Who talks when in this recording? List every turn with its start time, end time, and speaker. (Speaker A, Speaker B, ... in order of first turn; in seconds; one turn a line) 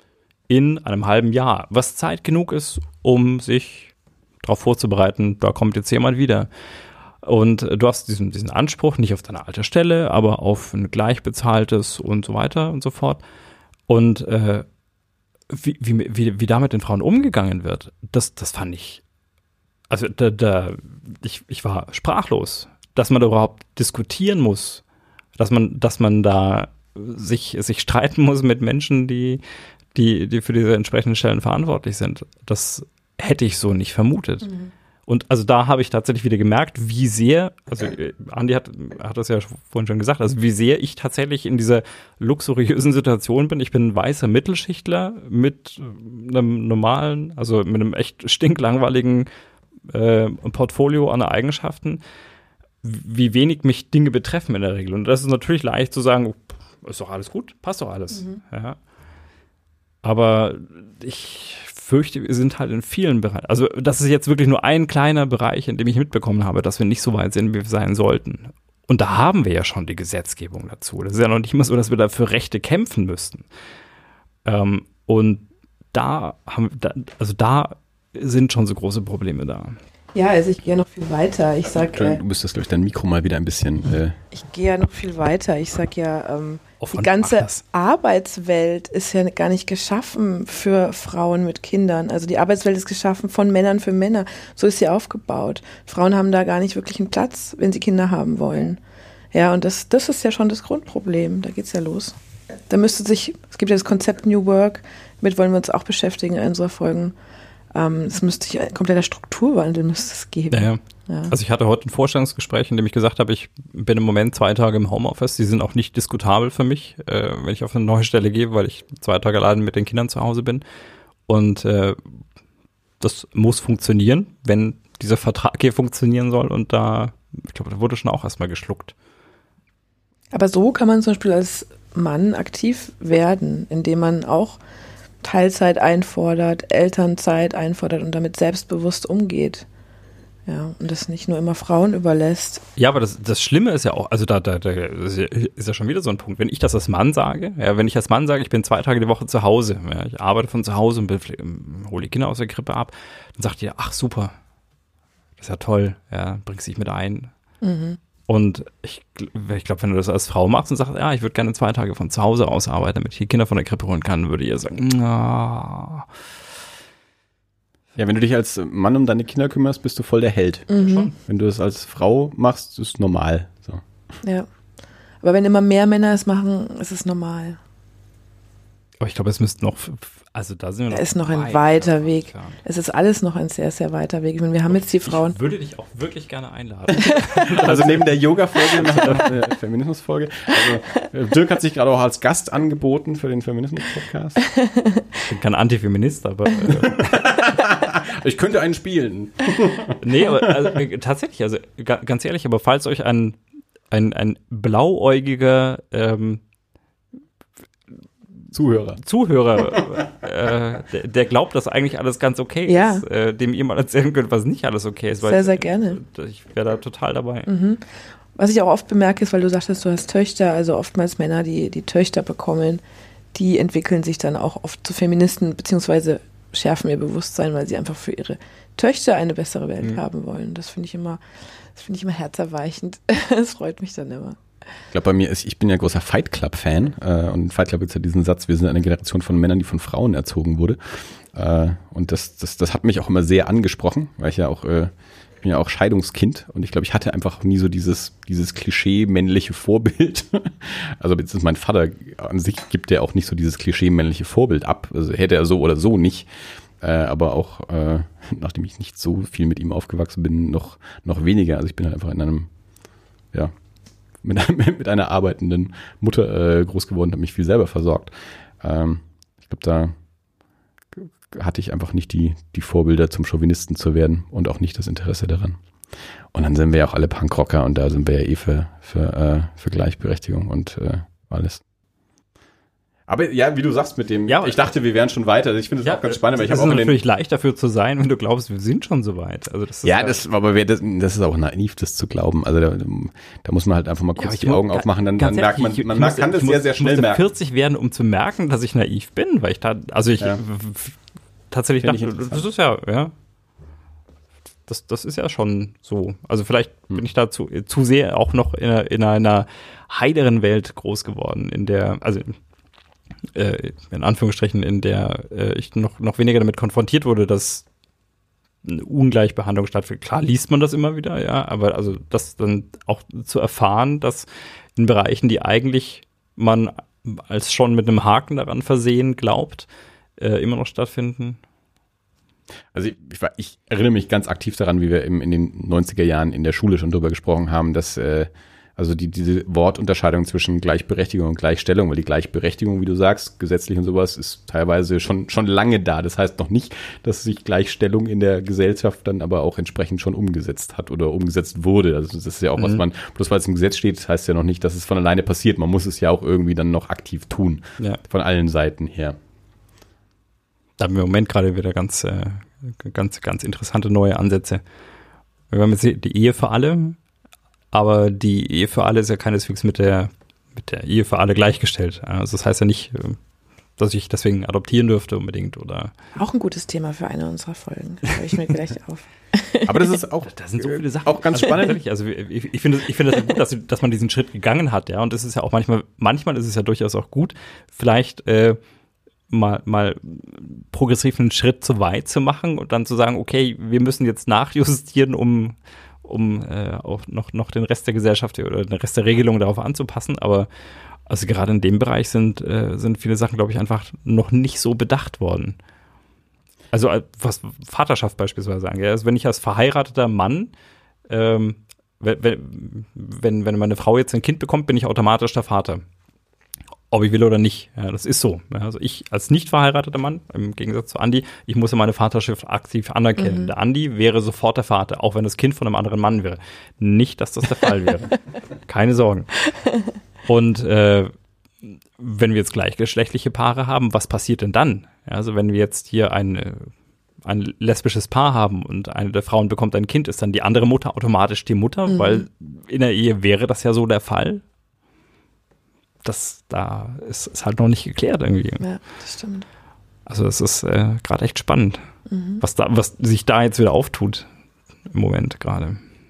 Speaker A: 0.5-6.5
Speaker A: 7.2-13.2
Speaker A: 13.9-14.7
Speaker A: 15.5-19.0
Speaker A: 19.9-24.8
Speaker A: 25.4-29.4
Speaker A: 29.9-34.5
Speaker A: 35.1-49.3
Speaker A: 49.9-52.0
Speaker A: 52.8-58.8
Speaker A: 60.0-73.4
Speaker A: 74.4-79.8
Speaker B: 80.1-82.2
Speaker C: 81.8-84.2
Speaker B: 84.3-98.8
Speaker A: 86.8-87.6
Speaker B: 99.3-102.2
Speaker B: 102.7-107.1
Speaker B: 107.7-111.3
Speaker A: 110.5-120.6
Speaker A: 121.3-122.0
Speaker A: 123.0-128.9
Speaker B: 130.3-134.6
Speaker B: 135.2-139.6
Speaker B: 140.5-142.6
Speaker A: 142.8-154.3
Speaker A: 155.4-157.3
Speaker B: 157.6-158.0
Speaker A: 158.3-166.1
Speaker C: 167.9-173.8
Speaker B: 170.7-171.1
Speaker A: 170.8-171.1
Speaker B: 175.2-177.6
Speaker A: 179.0-182.6
Speaker B: 180.9-185.3
Speaker A: 184.7-189.4
Speaker B: 187.0-187.5
Speaker C: 187.5-194.4
Speaker B: 194.4-195.1
Speaker A: 195.2-197.2
Speaker C: 196.7-200.8
Speaker A: 200.0-203.4
Speaker A: 203.9-206.4
Speaker C: 208.5-209.0
Speaker A: 209.0-217.5
Speaker B: 212.7-213.0
Speaker B: 215.2-216.0
Speaker B: 217.4-222.8
Speaker B: 223.3-231.2
Speaker B: 231.7-234.4
Speaker C: 234.9-240.8
Speaker C: 241.3-244.9
Speaker C: 245.4-256.3
Speaker C: 256.8-262.5
Speaker C: 264.2-269.9
Speaker C: 270.9-275.6
Speaker C: 276.3-281.6
Speaker C: 283.1-287.0
Speaker A: 284.3-284.6
Speaker A: 285.8-290.2
Speaker C: 289.8-297.3
Speaker A: 294.2-300.9
Speaker A: 301.5-303.1
Speaker C: 301.8-302.4
Speaker A: 304.7-312.4
Speaker A: 313.3-317.6
Speaker A: 318.6-331.4
Speaker C: 332.7-359.2
Speaker A: 360.8-364.6
Speaker A: 365.5-367.0
Speaker A: 367.7-373.2
Speaker A: 373.8-375.9
Speaker B: 376.1-379.9
Speaker C: 379.6-381.8
Speaker A: 380.2-388.6
Speaker A: 389.3-400.5
Speaker A: 401.1-405.6
Speaker A: 406.7-410.5
Speaker A: 411.1-415.8
Speaker A: 416.9-429.4
Speaker B: 423.2-423.5
Speaker A: 430.3-431.1
Speaker A: 431.6-436.7
Speaker A: 437.2-444.4
Speaker B: 441.9-442.2
Speaker A: 446.0-448.6
Speaker B: 448.6-449.5
Speaker A: 450.1-451.8
Speaker B: 452.1-452.4
Speaker A: 452.4-454.3
Speaker A: 454.9-455.8